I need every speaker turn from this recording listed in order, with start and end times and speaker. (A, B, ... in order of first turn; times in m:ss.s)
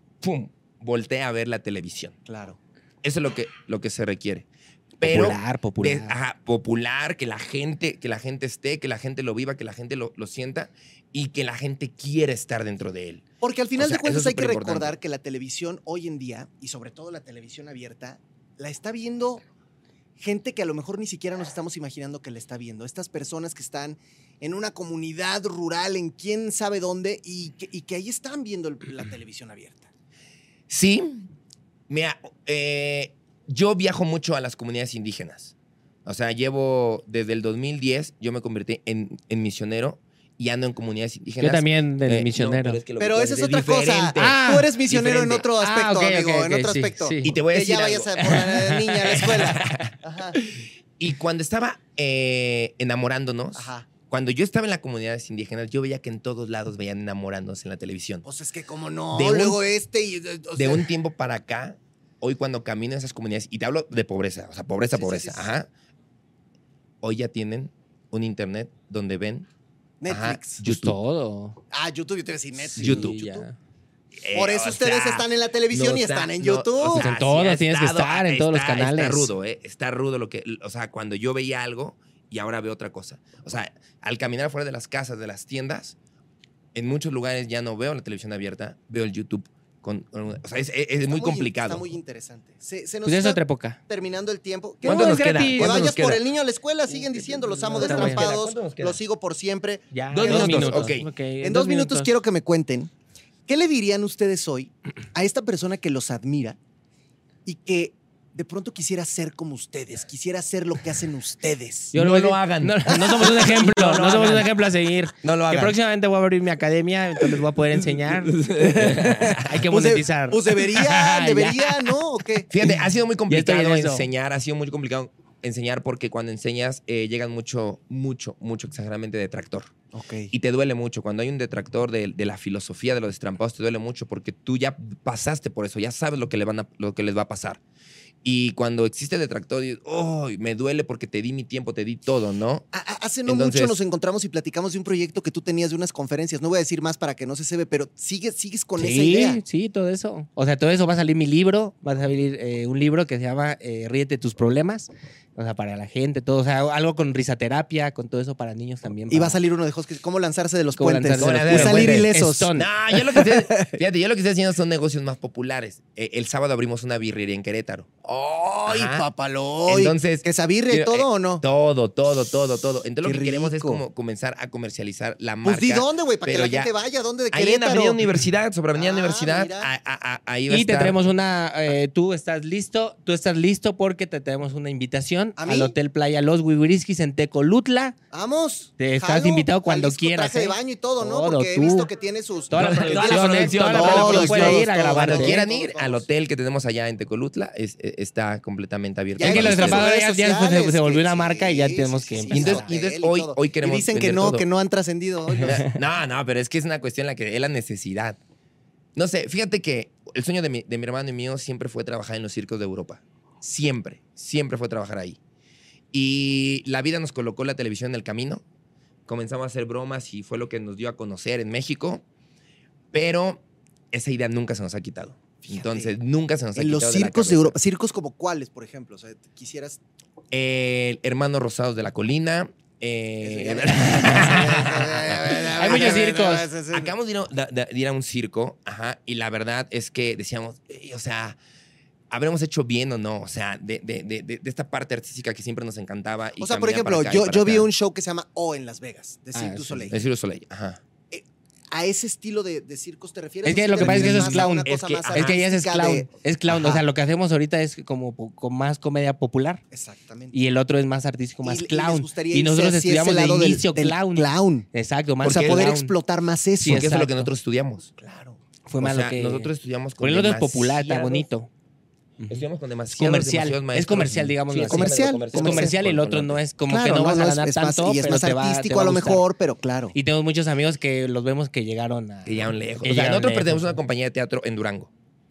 0:00.2-0:02.2 A
0:02.2-0:02.6 B
0:03.0-0:04.4 A
0:05.0-0:13.2 A
0:05.0-0:06.1 C
0:13.4-0:19.4 B
0:13.8-0:15.0 A
0:20.2-0:29.9 B
0:30.7-0:31.3 A
0:31.9-0:35.5 A
0:36.0-0:45.4 A
0:41.4-0:42.8 C
0:43.0-0:50.4 B
0:44.2-0:44.7 C
0:45.6-0:47.4 C
0:47.2-0:48.4 A
0:48.2-0:49.9 C
0:49.2-0:49.9 A
0:51.0-0:58.2 A
0:53.5-0:53.9 B
0:58.2-1:00.8 B
0:59.1-0:59.6 A
1:00.6-1:05.7 A
1:04.9-1:05.5 B
1:07.0-1:09.5 A
1:10.0-1:10.6 B
1:10.1-1:11.0 A
1:10.6-1:11.6 C
1:11.7-1:13.5 B
1:12.7-1:13.6 C
1:12.8-1:13.2 A
1:14.2-1:26.0 A
1:14.3-1:17.1 B
1:16.8-1:19.3 C
1:26.7-1:31.8 A
1:31.1-1:40.8 B
1:33.0-1:33.8 C
1:34.8-1:35.9 C
1:34.8-1:36.2 A
1:36.9-1:39.0 A
1:37.7-1:38.3 C
1:39.9-1:42.1 C
1:40.1-1:41.1 A
1:41.4-1:42.9 B
1:43.5-1:46.6 B
1:47.4-1:51.9 B
1:51.9-2:01.9 C
1:51.9-1:54.5 A
1:52.9-1:54.4 B
1:55.2-1:55.8 A
1:58.0-1:59.6 A
1:59.6-2:02.5 B
2:02.5-2:09.7 A
2:02.6-2:04.1 C
2:09.9-2:10.3 B
2:10.3-2:17.6 A
2:18.2-2:22.6 A
2:22.7-2:29.4 B
2:23.2-2:23.8 A
2:28.8-2:39.4 C
2:39.1-2:42.5 B
2:40.8-2:42.7 C
2:41.2-2:49.0 A
2:43.1-2:43.8 B
2:48.6-2:51.4 B
2:49.7-2:56.7 A
2:53.0-2:53.8 B
2:55.4-2:58.0 B
2:57.3-3:01.1 A
2:58.7-2:59.7 B
3:00.5-3:08.0 C
3:05.4-3:05.7 B
3:08.1-3:16.0 B
3:08.8-3:11.9 C
3:12.5-3:15.4 C
3:12.5-3:19.9 A
3:19.2-3:25.6 B
3:19.2-3:22.7 C
3:22.3-3:24.4 A
3:25.4-3:28.2 A
3:28.9-3:35.2 A
3:35.9-3:38.4 A
3:39.1-3:42.0 A
3:42.9-3:47.6 A
3:45.4-3:45.9 B
3:46.6-3:49.8 B
3:50.3-3:56.2 A
3:53.2-3:56.9 B
3:53.8-3:54.6 C
3:55.3-3:56.5 C
3:56.7-4:01.4 A
4:02.1-4:07.7 A
4:06.4-4:10.0 B
4:09.3-4:09.9 C
4:09.9-4:10.8 A
4:11.1-4:16.8 B
4:13.4-4:19.6 C
4:13.8-4:15.4 A
4:19.7-4:20.3 B
4:20.3-4:25.9 C
4:21.4-4:24.7 B
4:25.2-4:25.8 A
4:25.2-4:26.9 B
4:26.6-4:27.3 C
4:26.6-4:27.9 A
4:28.0-4:28.4 B
4:28.6-4:31.5 C
4:28.8-4:31.2 A
4:32.2-4:39.2 C
4:32.3-4:36.4 A
4:34.7-4:35.7 B
4:36.7-4:39.9 B
4:39.9-4:43.8 C
4:42.2-4:44.9 A